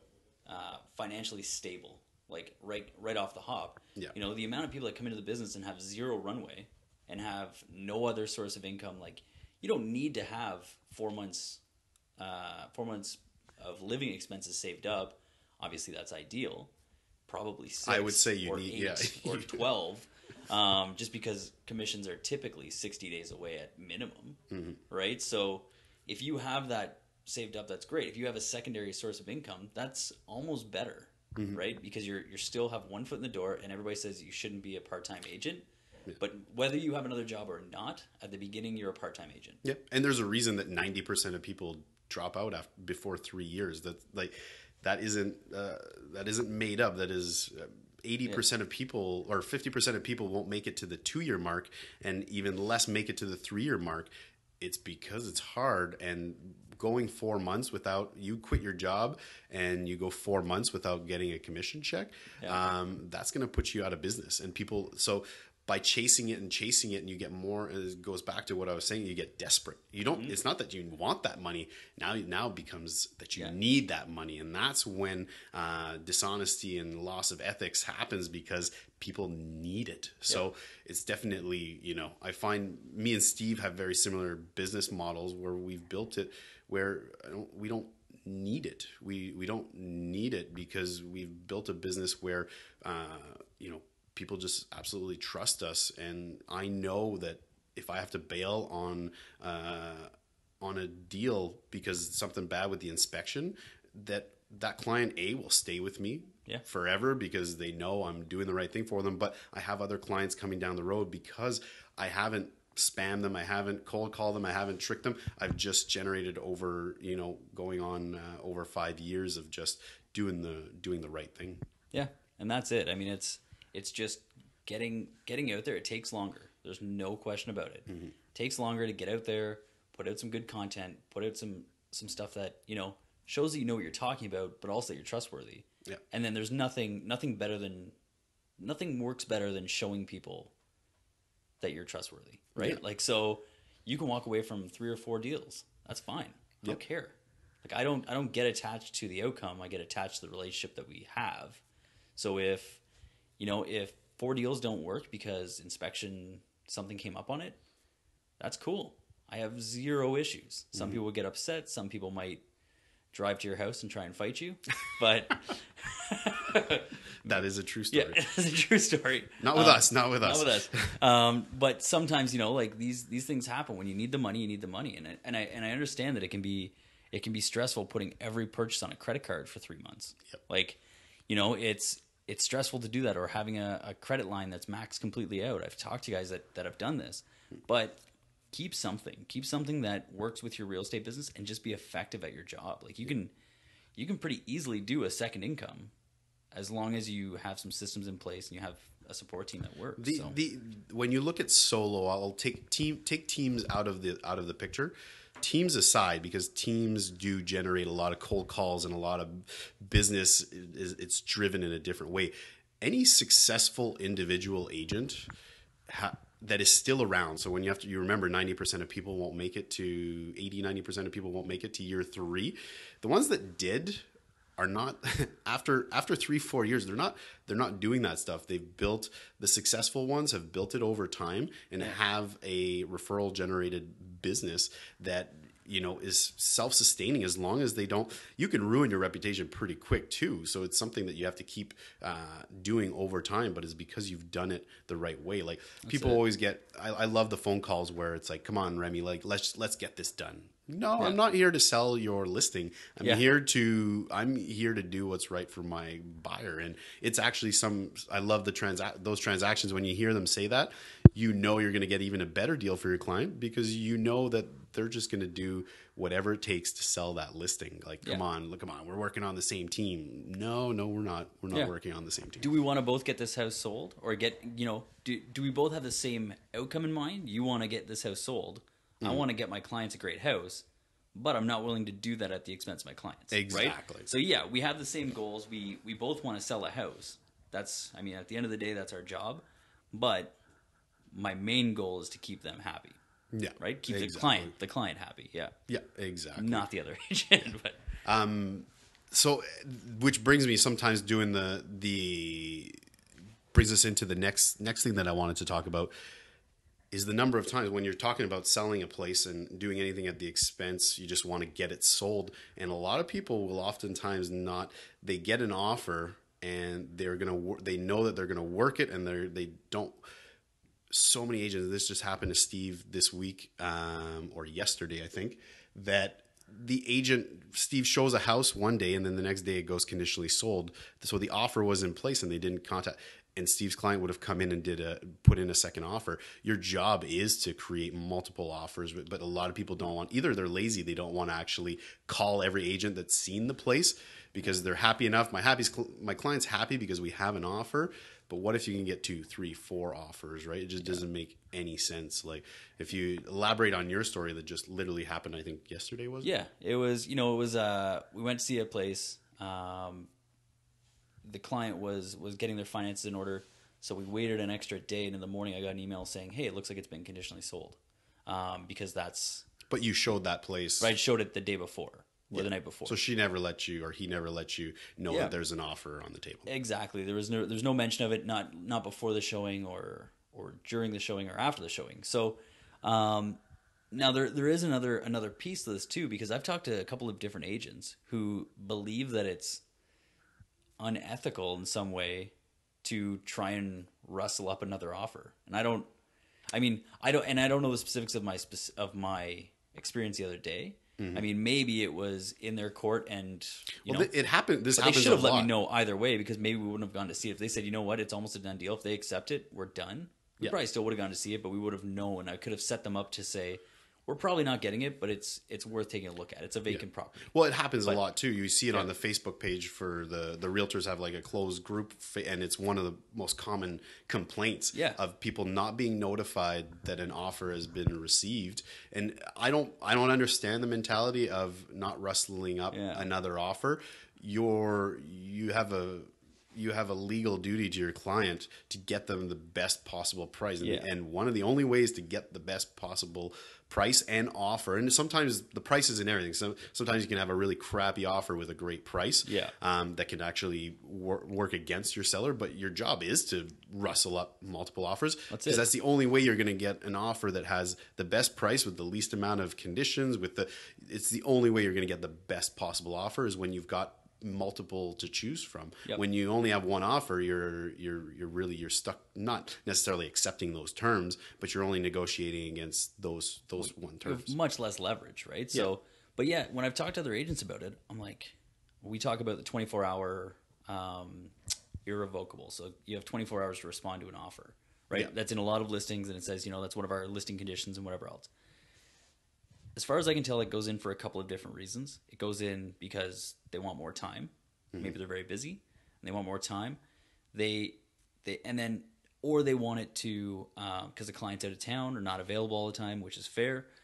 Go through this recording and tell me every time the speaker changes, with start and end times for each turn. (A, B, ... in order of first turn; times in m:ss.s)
0:00.4-0:11.6 A
0:12.2-0:16.7 A
0:17.3-0:35.7 A
0:17.9-0:19.6 B
0:24.5-0:24.8 B
0:31.4-0:31.6 B
0:36.2-0:39.6 A
0:39.6-1:40.1 B
1:40.6-2:01.6 B
2:01.9-2:18.0 A
2:07.9-2:08.2 B
2:18.6-2:20.5 A
2:21.6-2:31.6 A
2:32.2-2:32.8 A
2:33.4-2:37.6 A
2:38.4-2:42.4 A
2:40.7-2:41.0 B
2:43.1-2:47.4 A
2:47.2-2:48.2 B
2:47.9-3:13.3 A
2:49.4-2:51.0 B
3:14.0-3:15.9 A
3:16.5-3:20.4 A
3:20.0-3:35.3 B
3:35.9-3:44.1 B
3:44.6-4:32.5 B
4:05.8-4:06.2 A
4:32.4-4:50.4 A
4:43.3-4:44.1 B
4:51.1-4:53.0 A
4:53.3-4:54.5 B
4:53.6-4:55.5 A
4:55.7-4:56.7 B
4:56.4-4:57.8 A
4:58.0-5:02.8 B
5:03.5-5:05.9 B
5:06.9-5:20.0 B
5:20.9-5:56.3 B
5:56.2-6:00.1 A
6:01.2-6:09.5 A
6:09.7-6:10.9 B
6:10.8-6:13.0 A
6:12.3-6:16.5 B
6:16.5-6:23.4 A
6:23.9-6:29.6 A
6:30.8-6:35.9 A
6:36.5-6:44.1 A
6:41.0-6:41.2 B
6:43.8-6:45.5 B
6:44.7-6:57.3 A
6:56.7-7:54.3 B
7:04.7-7:05.0 A
7:12.7-7:13.1 A
7:20.6-7:20.9 A
7:29.3-7:29.5 A
7:35.3-7:35.7 A
7:53.6-8:01.3 A
8:01.8-8:08.3 A
8:09.8-8:16.8 A
8:14.7-8:15.0 B
8:17.3-8:23.7 A